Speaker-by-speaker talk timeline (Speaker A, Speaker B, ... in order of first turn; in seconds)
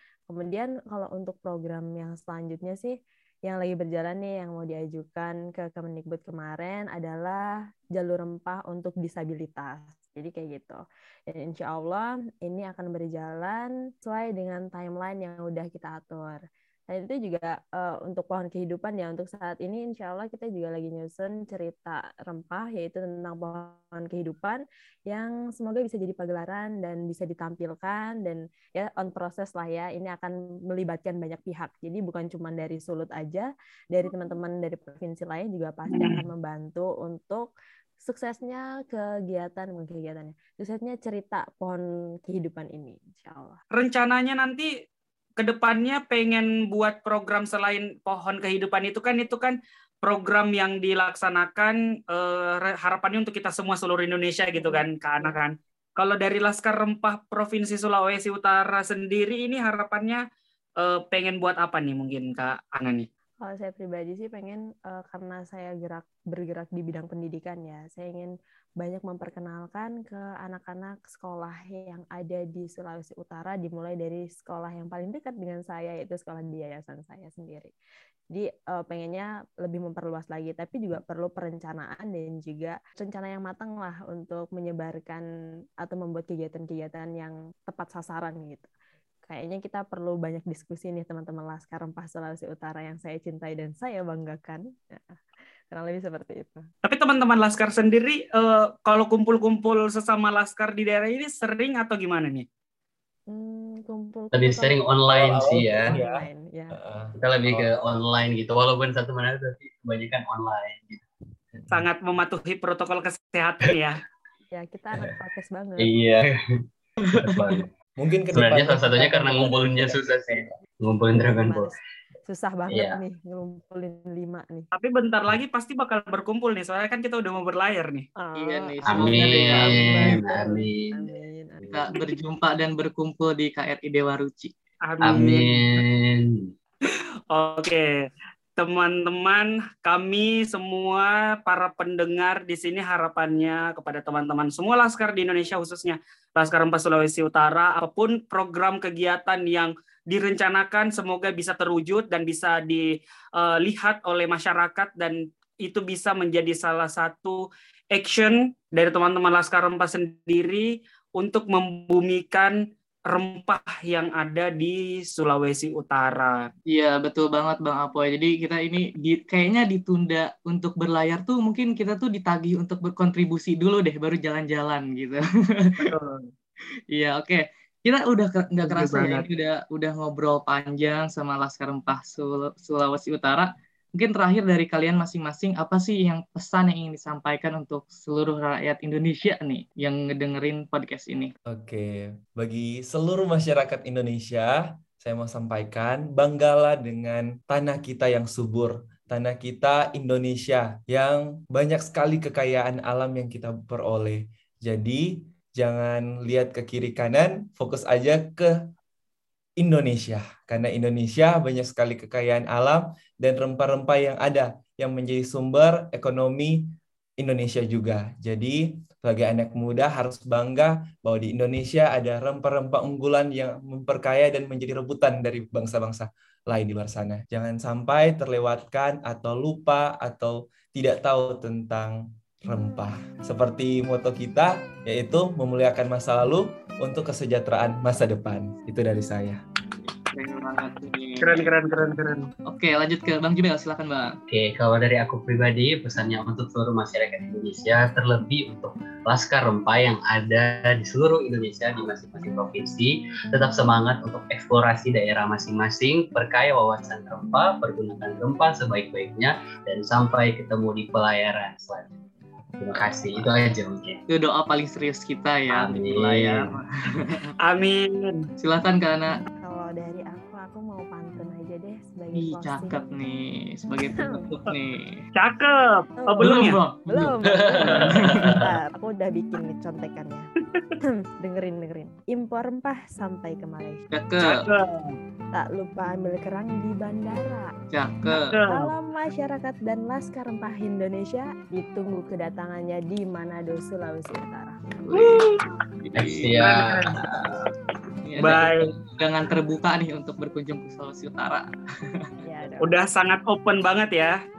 Speaker A: 0.3-37.5, 38.0-43.6, 54.5-55.4, 63.4-77.7, 78.3-85.2, 85.8-88.7, 89.3-96.7, 103.3-104.8, 105.9-106.8, 114.5-115.9, 121.2-124.7, 128.2-132.0, 269.4-272.9, 274.0-274.2, 276.0-280.3, 280.8-283.8, 285.3-287.5, 288.1-294.8, 302.2-302.8
Speaker B: 35.9-36.2, 43.7-44.7, 45.4-60.2, 60.8-63.0, 96.8-102.4, 111.7-114.0, 124.7-128.1, 134.8-135.8, 136.8-157.4, 157.9-162.5, 163.1-166.5, 175.8-176.3, 178.6-179.2, 241.2-242.3, 267.4-268.2, 275.1-276.6, 284.2-284.9, 288.3-288.7, 295.0-295.4, 296.4-297.3, 298.2-298.7, 302.6-304.1
Speaker C: 104.3-106.0, 107.2-111.0, 115.8-116.4, 117.1-117.7, 118.3-121.7, 122.7-123.0, 128.9-131.9, 135.0-136.4, 244.3-262.0, 262.6-264.0, 265.5-266.5, 277.3-278.4, 295.9-297.5
Speaker D: 105.1-106.2, 106.7-107.8, 118.0-120.5, 191.5-208.5, 209.6-216.6, 217.2-239.4
Speaker E: 117.1-117.5, 128.3-130.2, 131.7-134.5, 166.7-175.9, 176.9-191.3, 240.1-241.5, 242.5-244.2, 264.1-267.3, 268.4-269.1, 272.1-275.0, 276.2-277.2, 277.7-278.4, 283.9-284.5, 287.7-288.3, 294.9-296.4, 298.0-302.1